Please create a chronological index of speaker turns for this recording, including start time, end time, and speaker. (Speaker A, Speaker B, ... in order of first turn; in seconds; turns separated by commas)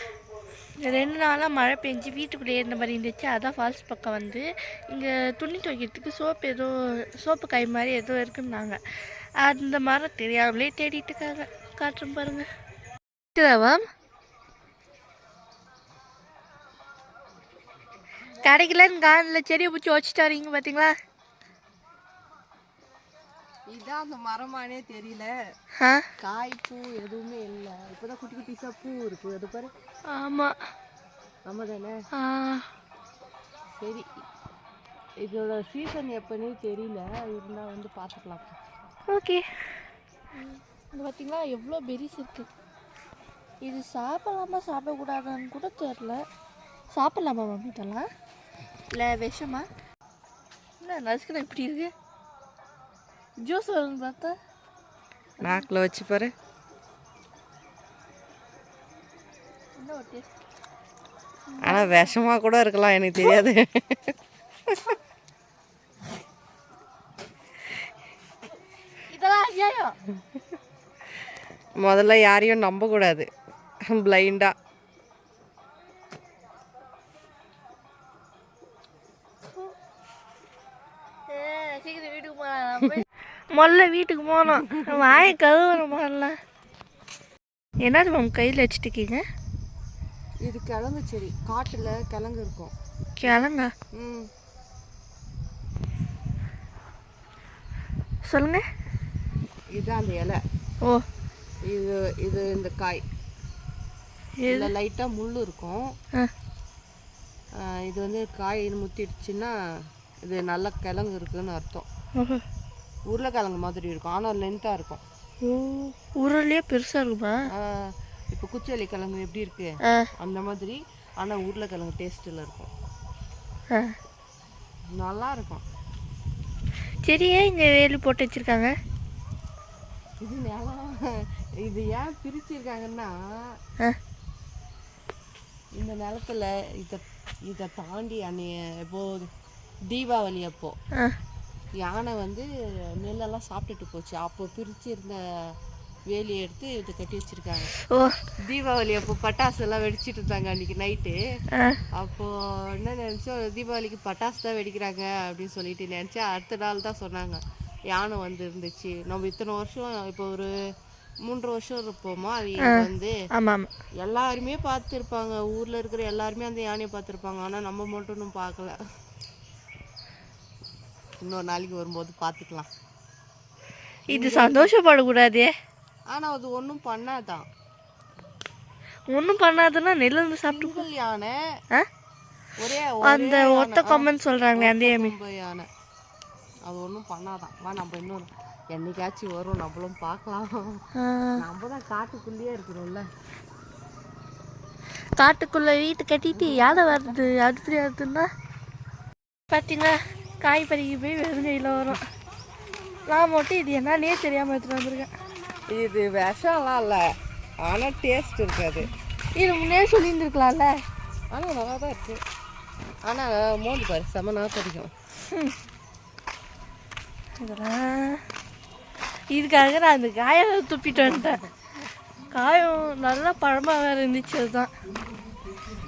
Speaker A: 0.8-8.8, Speaker A: 9.4-12.5, Speaker A: 13.3-13.8, Speaker A: 18.4-20.9, Speaker B: 23.7-25.3, Speaker A: 25.8-26.1, Speaker B: 26.2-29.7, Speaker A: 30.1-30.6, Speaker B: 31.5-32.0, Speaker A: 32.1-32.7, Speaker B: 33.8-34.1, Speaker B: 35.2-38.6, Speaker A: 39.1-39.5, Speaker A: 40.4-42.5, Speaker A: 43.6-46.2, Speaker A: 46.9-48.1, Speaker A: 48.9-49.7, Speaker A: 50.8-51.9, Speaker A: 53.4-54.4, Speaker A: 55.4-55.7, Speaker B: 55.4-56.3, Speaker A: 59.8-60.4, Speaker A: 61.5-62.1, Speaker B: 61.6-64.1, Speaker B: 64.7-65.0, Speaker A: 69.1-70.0, Speaker B: 71.8-73.3, Speaker B: 73.9-74.5, Speaker A: 81.3-86.3, Speaker B: 84.5-85.3, Speaker A: 87.8-89.2, Speaker B: 90.4-92.7, Speaker A: 93.2-93.7, Speaker B: 93.9-94.3, Speaker A: 98.3-98.7, Speaker B: 99.7-100.4, Speaker B: 101.6-103.0, Speaker A: 104.4-104.7, Speaker B: 104.5-105.9, Speaker B: 107.6-109.5, Speaker B: 110.2-111.9, Speaker A: 112.2-112.4, Speaker B: 113.1-115.0, Speaker A: 115.4-117.5, Speaker B: 117.5-122.7, Speaker A: 119.8-120.1, Speaker B: 124.9-125.6, Speaker A: 127.0-128.7, Speaker B: 130.2-133.2, Speaker B: 135.8-139.3, Speaker B: 139.9-140.8, Speaker B: 141.8-145.2, Speaker B: 146.1-147.7, Speaker A: 147.9-148.2, Speaker B: 148.4-151.2, Speaker A: 151.5-151.8, Speaker B: 151.9-157.4, Speaker B: 157.9-160.5, Speaker B: 161.3-163.1, Speaker A: 162.6-163.7, Speaker B: 164.0-168.8, Speaker B: 171.2-172.7, Speaker B: 174.1-174.7, Speaker A: 174.1-175.5, Speaker B: 176.1-177.4, Speaker A: 179.1-180.9, Speaker B: 180.5-181.4, Speaker B: 182.6-185.7, Speaker A: 183.0-185.1, Speaker B: 186.7-190.8, Speaker A: 191.0-191.4, Speaker B: 191.4-193.1, Speaker A: 195.2-198.3, Speaker B: 196.3-197.2, Speaker A: 199.5-202.0, Speaker A: 203.1-205.1, Speaker B: 205.7-207.1, Speaker B: 207.6-208.9, Speaker A: 209.4-210.7, Speaker B: 211.3-212.2, Speaker B: 213.1-214.9, Speaker A: 215.3-215.5, Speaker A: 217.4-218.2, Speaker A: 219.3-221.4, Speaker B: 220.9-221.5, Speaker A: 222.3-224.7